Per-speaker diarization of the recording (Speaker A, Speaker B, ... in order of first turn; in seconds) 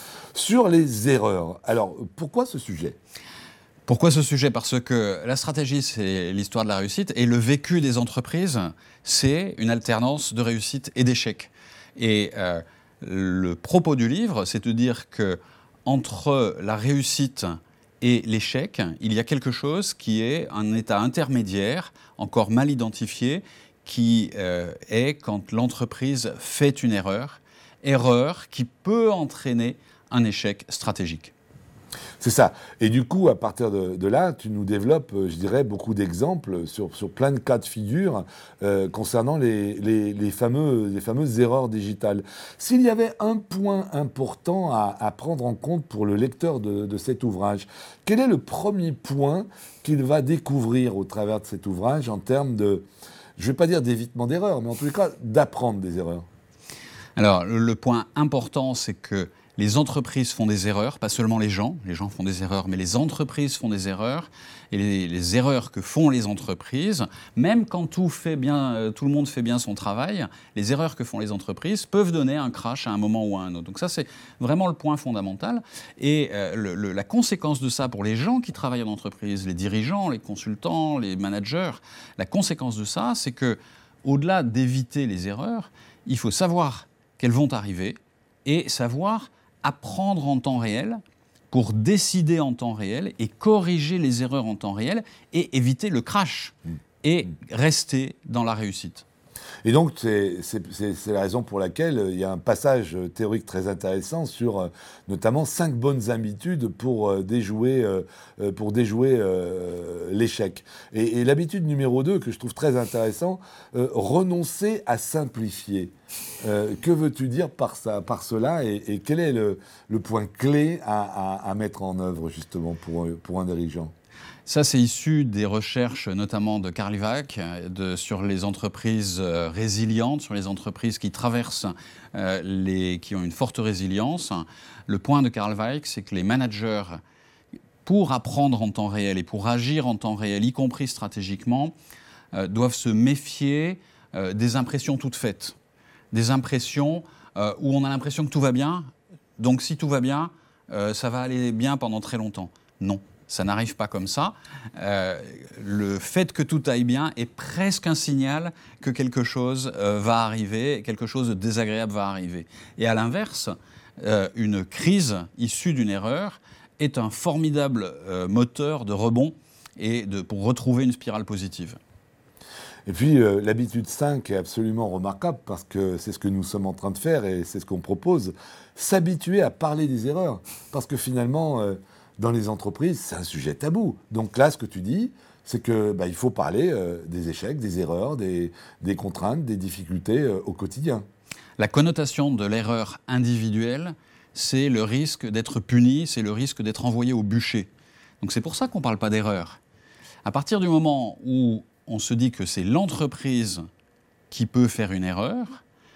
Speaker A: 0.3-3.0, 32.2-52.9, 53.4-56.3, 99.6-123.9, 172.9-191.1
Speaker B: 3.9-31.3, 57.2-91.0, 91.5-99.0, 124.5-137.0, 137.8-141.7, 142.3-145.6, 146.1-171.8, 191.6-197.7, 198.2-199.6, 200.2-203.6, 204.3-205.6